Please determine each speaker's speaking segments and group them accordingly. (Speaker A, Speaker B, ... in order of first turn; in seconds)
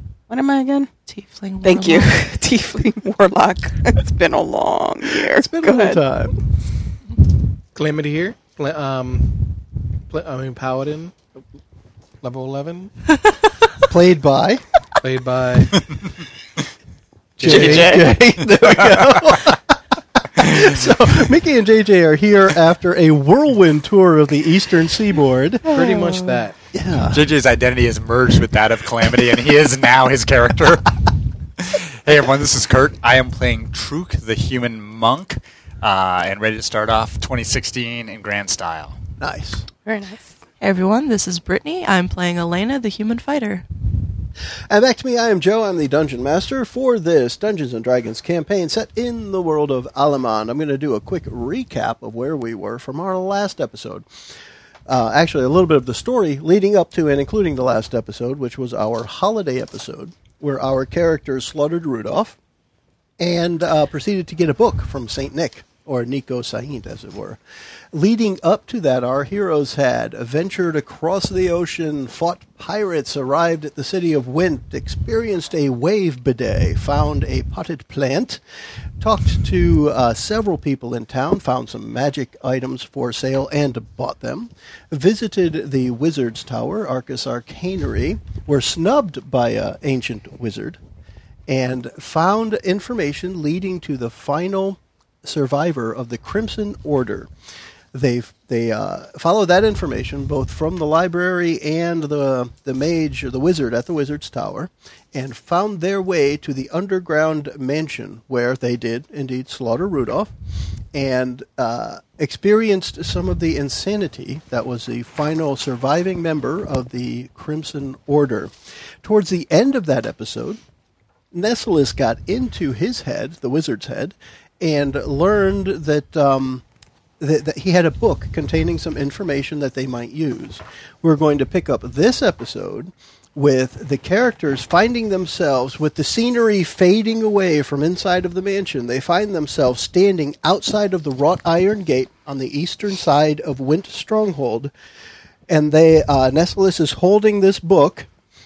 Speaker A: 0.3-0.9, 1.6-6.0, 17.7-18.0, 39.8-40.4
Speaker B: 1.1-2.2, 13.3-13.6, 40.6-43.6
Speaker C: 5.3-6.3, 13.9-14.6, 17.4-19.8, 20.3-25.7, 26.7-27.2, 39.2-39.6, 44.7-54.0, 54.9-62.4, 63.2-67.4, 67.9-78.4, 79.0-90.8, 91.5-97.3, 97.9-110.3, 110.9-120.6, 121.3-126.6, 127.2-144.7, 145.5-148.1
Speaker D: 7.7-9.5, 10.1-11.2, 12.2-12.9, 15.0-15.8, 17.4-18.1, 25.6-26.6
Speaker E: 17.4-19.5, 20.4-20.8, 27.0-30.9, 31.6-39.0